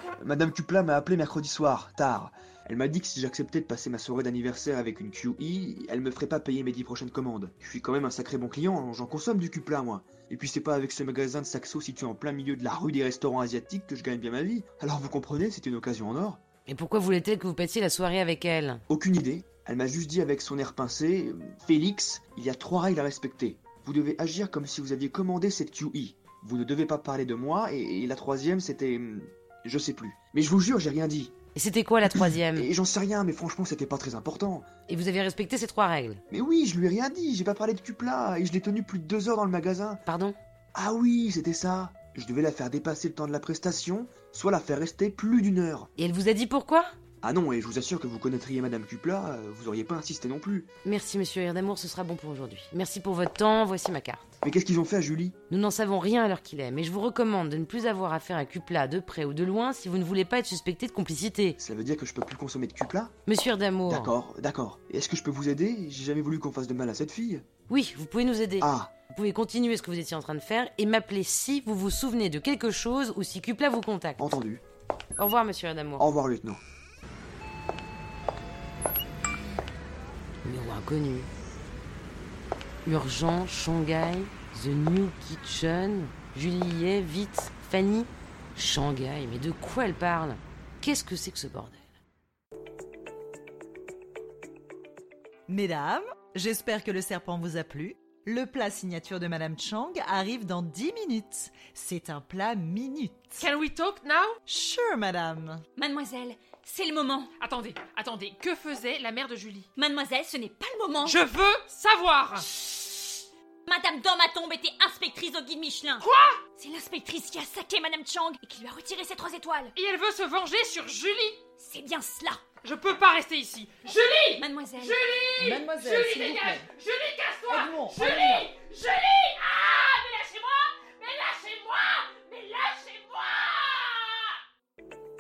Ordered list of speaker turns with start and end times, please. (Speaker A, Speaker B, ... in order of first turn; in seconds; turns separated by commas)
Speaker A: 0.2-16.4, Speaker B: 16.7-18.8, Speaker A: 18.9-31.3, Speaker B: 31.6-32.7, Speaker A: 32.2-34.7, Speaker B: 34.9-36.2, Speaker A: 36.3-40.0, Speaker B: 40.0-40.4, Speaker A: 40.8-45.9, Speaker B: 46.0-46.9, Speaker A: 47.2-50.7, Speaker B: 50.9-54.4, Speaker A: 54.4-55.4, Speaker B: 55.5-61.6, Speaker A: 61.6-63.1, Speaker B: 63.3-64.1, Speaker A: 63.9-67.4, Speaker B: 67.7-74.3, Speaker A: 68.6-68.9, Speaker A: 74.2-74.6, Speaker B: 75.2-76.1, Speaker A: 76.0-76.6, Speaker B: 80.4-81.3, Speaker B: 82.8-91.8, Speaker C: 95.5-103.5, Speaker D: 103.4-104.4, Speaker C: 104.5-105.6, Speaker E: 105.8-107.3, Speaker D: 107.4-109.7, Speaker E: 109.8-111.2, Speaker D: 111.0-112.5, Speaker E: 112.5-113.1, Speaker E: 113.7-119.7, Speaker D: 116.0-116.4, Speaker D: 119.8-121.4, Speaker E: 121.6-122.4, Speaker D: 122.6-134.4, Speaker E: 124.3-125.0, Speaker C: 125.4-126.7, Speaker C: 127.5-128.5